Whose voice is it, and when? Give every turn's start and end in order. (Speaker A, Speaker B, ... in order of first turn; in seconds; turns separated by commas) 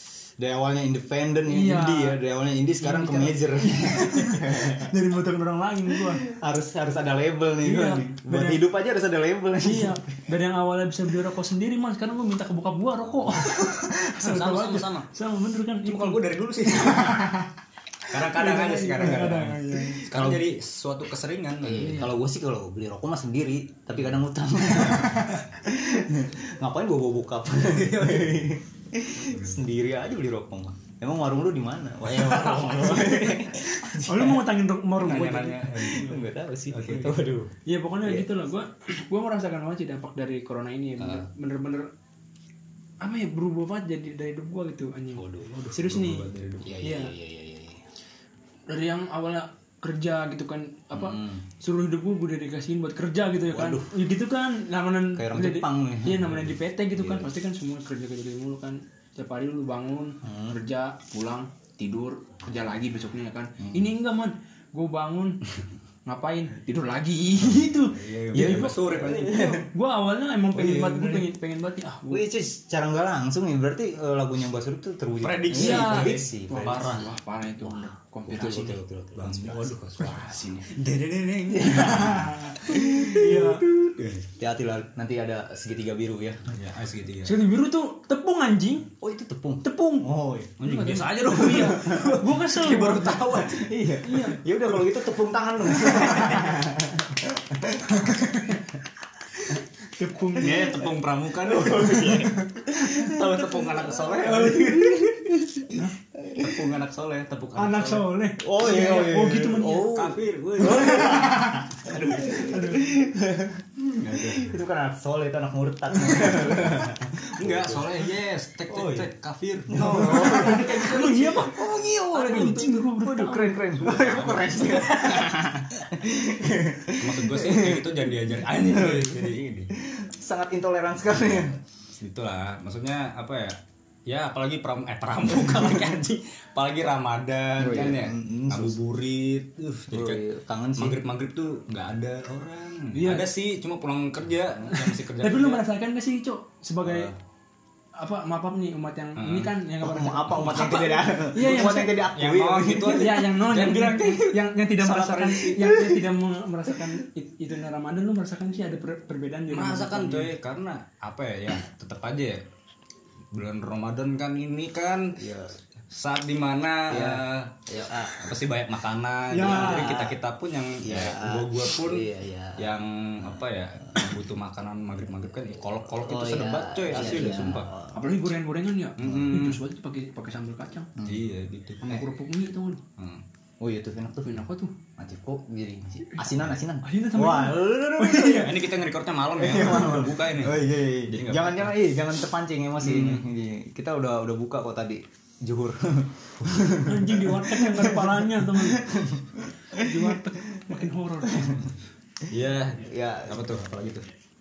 Speaker A: 0.4-5.0, Speaker B: 1.5-2.2, Speaker B: 2.8-6.3, Speaker A: 5.9-10.2, Speaker B: 7.6-8.6, Speaker B: 9.6-16.2, Speaker C: 13.5-15.1, Speaker C: 15.8-17.5, Speaker B: 16.9-17.2, Speaker C: 18.1-22.0, Speaker B: 18.2-20.3, Speaker A: 20.1-20.4, Speaker A: 21.6-34.4, Speaker B: 21.7-22.1, Speaker C: 27.6-28.5, Speaker C: 29.2-29.6, Speaker C: 32.2-33.2, Speaker B: 33.0-33.3, Speaker B: 33.9-36.2, Speaker C: 35.0-37.3, Speaker A: 35.9-38.3, Speaker B: 37.6-41.9, Speaker A: 41.0-41.3, Speaker B: 43.0-46.3, Speaker A: 45.1-45.6, Speaker C: 45.5-46.8, Speaker A: 46.6-47.8, Speaker B: 46.8-47.1, Speaker B: 48.7-65.4, Speaker A: 50.9-51.4, Speaker A: 53.5-54.0, Speaker A: 55.1-57.3, Speaker A: 60.2-60.6, Speaker A: 63.6-63.9, Speaker B: 66.1-72.2, Speaker C: 67.6-69.5, Speaker A: 68.3-69.6, Speaker A: 70.5-71.3, Speaker A: 72.1-77.0, Speaker C: 75.2-77.1, Speaker B: 75.5-78.8, Speaker A: 77.6-79.8, Speaker C: 79.2-84.3, Speaker B: 80.0-80.7, Speaker A: 81.5-83.8, Speaker B: 81.8-83.7, Speaker A: 84.4-86.5, Speaker C: 86.5-87.4, Speaker B: 87.2-88.9, Speaker A: 89.0-90.6, Speaker B: 89.6-93.2, Speaker C: 90.6-93.8, Speaker A: 91.7-92.1, Speaker A: 93.3-98.3, Speaker B: 94.0-94.4, Speaker C: 96.0-96.4, Speaker B: 98.0-98.5, Speaker B: 100.0-100.8, Speaker A: 100.4-100.9, Speaker C: 100.4-105.2, Speaker A: 101.4-106.6, Speaker C: 106.4-108.1, Speaker B: 107.5-109.9, Speaker A: 108.4-118.1, Speaker C: 109.9-112.6, Speaker B: 110.7-111.2, Speaker B: 112.0-112.8, Speaker C: 114.0-114.5, Speaker C: 116.1-116.9, Speaker C: 117.4-121.4, Speaker A: 118.7-119.1, Speaker A: 119.7-128.0, Speaker B: 119.8-121.6, Speaker B: 122.1-123.8, Speaker C: 123.8-125.2, Speaker C: 126.9-129.7, Speaker A: 128.5-131.6, Speaker C: 132.0-140.2, Speaker A: 137.6-138.8, Speaker B: 137.6-137.9, Speaker A: 139.9-141.0, Speaker C: 140.8-145.6, Speaker B: 142.9-143.3, Speaker B: 144.7-147.1, Speaker A: 146.8-147.1, Speaker B: 148.0-152.1, Speaker C: 149.2-149.5, Speaker A: 149.8-153.2, Speaker C: 150.4-150.8, Speaker C: 152.0-155.5, Speaker B: 152.9-160.3, Speaker A: 155.3-156.1, Speaker C: 159.5-162.4, Speaker C: 163.3-165.2, Speaker A: 165.2-165.6, Speaker C: 165.9-167.5, Speaker A: 166.9-168.4, Speaker C: 168.1-177.7, Speaker B: 169.3-170.0, Speaker A: 169.3-170.2, Speaker A: 170.8-174.1, Speaker A: 175.9-178.1, Speaker B: 176.9-180.9, Speaker C: 179.0-179.6, Speaker A: 179.0-179.3, Speaker A: 181.0-181.2, Speaker C: 181.0-182.0, Speaker B: 181.8-182.8, Speaker C: 183.0-183.2, Speaker A: 183.6-184.4, Speaker B: 184.2-184.7, Speaker A: 185.0-188.7, Speaker B: 186.8-188.6, Speaker C: 188.1-191.8, Speaker A: 189.4-201.7, Speaker B: 189.6-190.0, Speaker C: 192.8-193.2, Speaker B: 196.8-198.8, Speaker B: 199.8-201.7, Speaker C: 202.3-204.1, Speaker A: 202.8-203.7